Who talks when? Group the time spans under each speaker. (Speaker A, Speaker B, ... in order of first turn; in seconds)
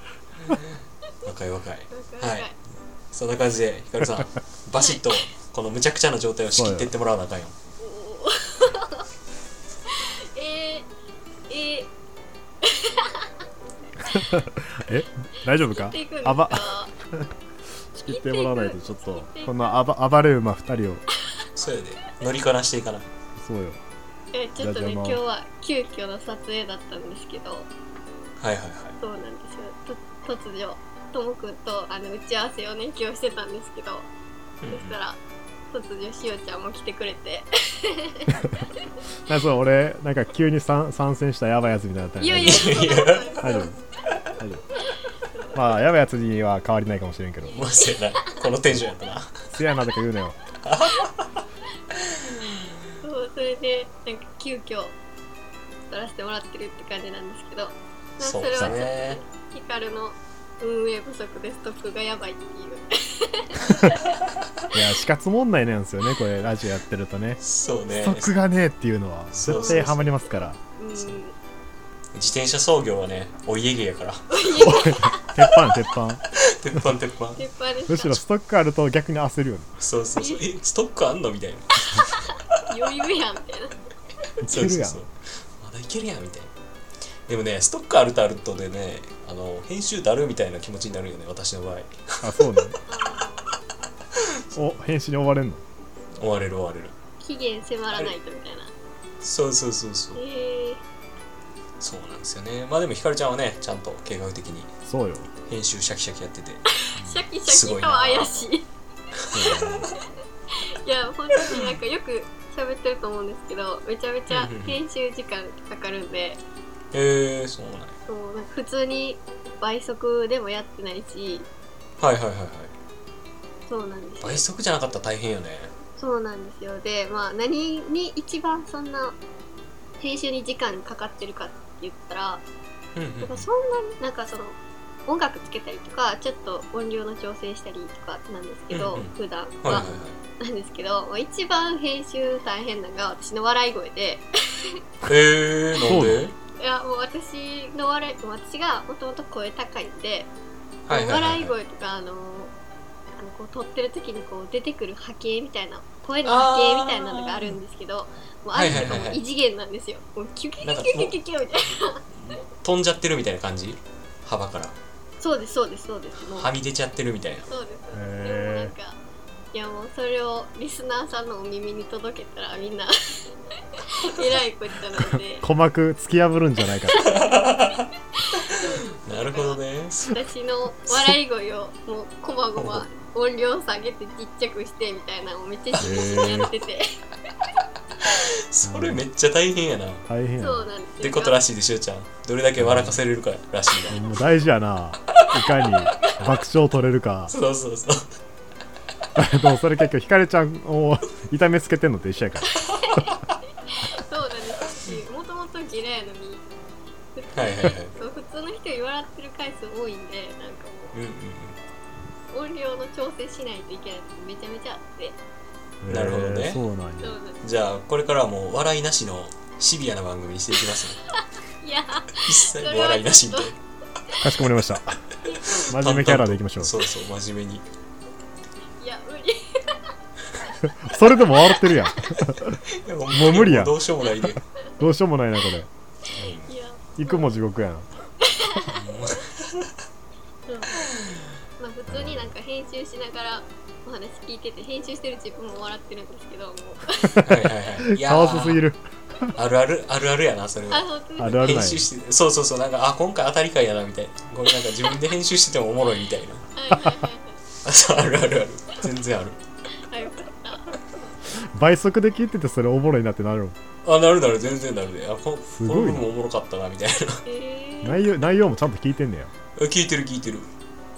Speaker A: 0.5-2.5, 3.1-7.5, 21.6-23.1, 28.4-29.0, 34.6-35.0, 42.4-43.5, 47.5-49.3, 50.6-51.4, 58.2-59.2, 67.4-68.3, 69.3-70.1, 72.1-75.0, 76.5-77.4, 79.8-82.1, 84.4-86.5, 87.3-92.7, 96.2-97.0, 99.2-100.2, 101.8-104.7, 105.5-106.7, 107.5-108.5, 114.3-114.8, 116.9-118.0, 122.0-122.7, 124.2-125.7, 133.0-133.5, 138.7-140.2, 145.1-146.3, 150.9-151.5, 156.2-157.6, 158.5-159.2, 160.6-161.2, 162.1-164.8, 166.3-167.5, 177.0-177.9, 178.6-180.2, 182.6-182.9, 185.7-186.0, 188.1-190.0, 191.0-194.0, 197.3-198.0, 207.3-207.9, 210.9-211.6, 215.9-216.6, 217.4-221.0, 222.2-223.6, 225.5-227.7, 232.8-234.4, 236.1-236.5, 238.7-239.7, 247.2-248.7, 249.4-256.5, 257.6-259.4, 263.8-267.2, 269.6-270.5
Speaker B: 1.9-2.5, 4.8-5.0, 7.8-9.1, 9.9-10.9, 11.5-11.9, 12.6-13.4, 15.7-16.9, 18.1-19.6, 24.3-27.7, 29.0-34.1, 34.7-35.2, 35.7-38.3, 42.2-43.7, 45.0-45.7, 47.4-48.5, 53.0-55.0, 55.9-64.2, 67.6-68.0, 69.5-71.4, 74.3-75.3, 77.4-78.2, 80.2-80.5, 82.6-83.8, 92.9-93.6, 97.2-98.7, 100.2-100.8, 106.8-108.7, 110.8-116.4, 118.1-121.5, 123.7-124.5, 126.0-129.2, 130.0-132.4, 133.2-139.9, 140.4-144.3, 146.6-150.3, 150.9-152.5, 153.2-162.0, 165.2-166.5, 167.5-169.0, 169.5-172.9, 173.8-175.4, 178.3-186.8, 190.4-191.4, 202.6-206.4, 207.2-211.0, 212.3-215.2, 217.0-217.4, 221.2-223.5, 225.2-225.7, 228.8-229.8, 236.1-237.3, 238.3-238.8, 240.5-240.8, 241.6-247.2, 250.7-251.7, 256.6-257.4, 259.9-261.1, 267.3-268.1
Speaker C: 6.5-6.9, 14.0-17.3, 17.9-21.0, 23.4-23.8, 24.6-25.2, 39.3-42.8, 43.4-43.8, 44.4-44.6, 45.5-47.7, 49.5-50.4, 64.7-67.4, 68.0-70.6, 74.6-76.2, 77.9-79.8, 84.4-85.0, 92.2-92.8, 94.5-95.6, 104.9-105.3, 107.0-107.2, 109.3-109.9, 145.8-146.3, 167.9-168.8, 175.2-177.0, 185.8-186.5, 188.6-189.0, 190.1-190.7, 192.6-193.0, 193.9-197.3, 199.2-202.6, 215.8-217.2, 224.2-225.1, 225.7-226.7, 230.6-233.8, 234.3-235.7, 237.0-237.9, 241.9-242.3, 247.9-249.3, 251.2-251.9, 261.4-263.6, 265.5-266.1, 267.8-269.3